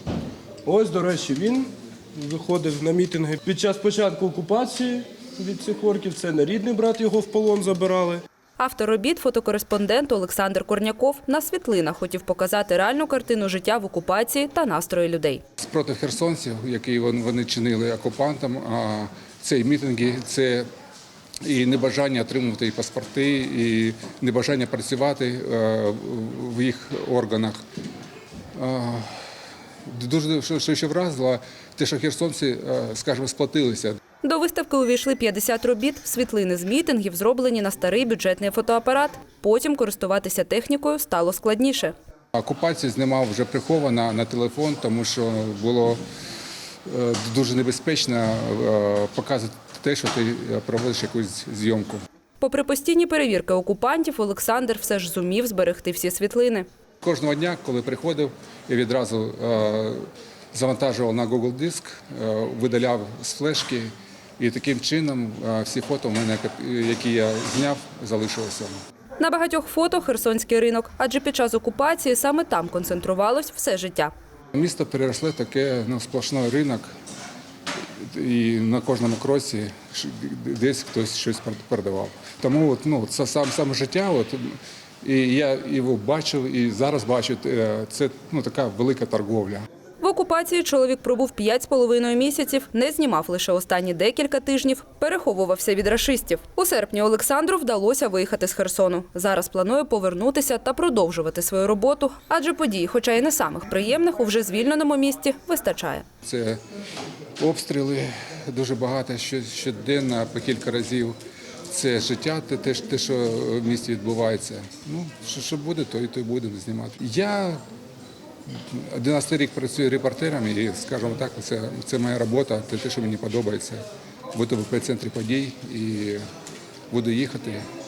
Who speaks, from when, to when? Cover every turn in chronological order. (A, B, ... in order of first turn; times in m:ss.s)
0:00.6-0:08.2 A
0:08.6-0:15.4 B
0:15.6-0:20.6 C
0:21.4-0:27.6 C
0:28.6-0:29.2 C
0:29.8-0:34.0 C
0:34.2-0:41.9 B
0:42.3-0:46.0 C
0:46.8-0:52.0 C
0:52.4-0:56.6 B
0:57.0-1:08.8 C
1:09.2-1:14.1 B
1:14.5-1:16.9 C
1:18.0-1:29.7 C
1:30.0-1:46.0 B
1:46.2-1:46.6 C
1:47.4-1:51.2 C
1:51.7-1:57.6 C
1:58.5-2:06.2 C
2:06.9-2:07.6 C